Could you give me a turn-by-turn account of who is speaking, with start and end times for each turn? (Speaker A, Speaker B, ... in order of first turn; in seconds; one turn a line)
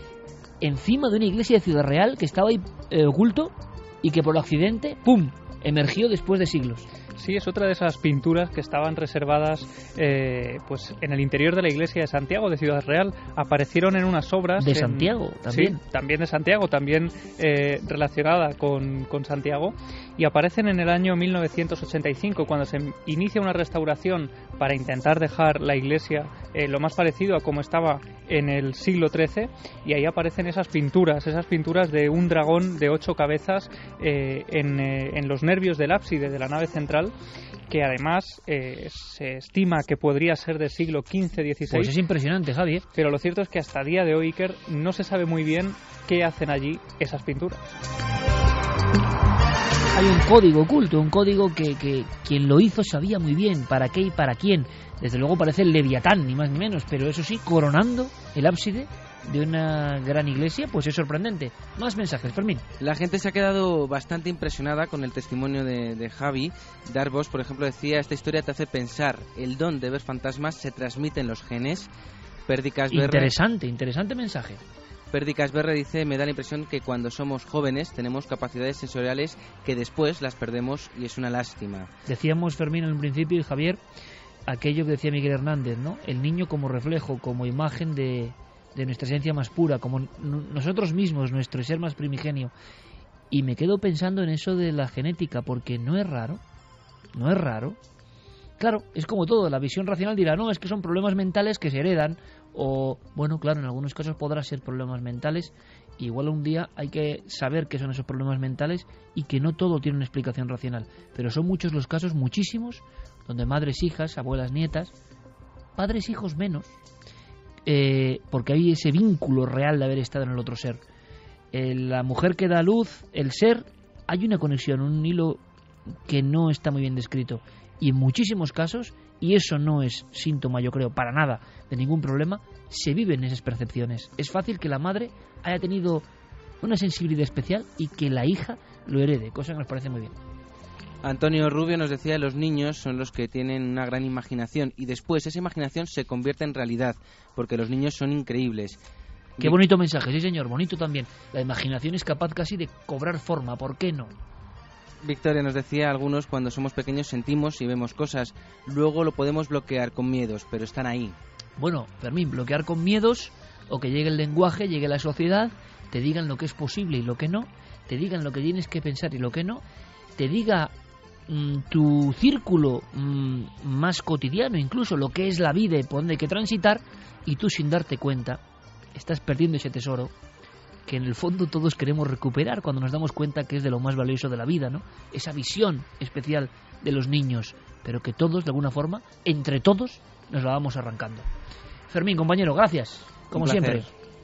Speaker A: 0.6-6.9
Speaker B: 7.2-37.1
Speaker A: 14.6-15.8
Speaker B: 37.7-41.9
Speaker A: 41.7-42.9
Speaker B: 42.9-47.7
Speaker A: 49.9-62.6
Speaker C: 62.8-71.9
Speaker C: 72.5-73.3
Speaker A: 72.9-74.6
Speaker C: 75.1-81.9
Speaker A: 82.1-83.8
Speaker A: 84.5-92.5
Speaker A: 93.3-96.4
Speaker A: 97.1-97.8
Speaker A: 98.6-114.9
Speaker A: 115.8-116.7
Speaker A: 117.7-120.8
Speaker A: 121.5-125.4
Speaker A: 126.1-136.1
Speaker A: 136.6-140.1
Speaker C: 141.0-148.8
Speaker A: 149.4-154.1
Speaker C: 155.0-161.2
Speaker A: 161.6-169.6
Speaker A: 170.2-170.7
Speaker A: 171.3-178.4
Speaker A: 178.9-180.1
Speaker A: 180.8-191.3
Speaker A: 191.9-193.9
Speaker C: 193.3-193.9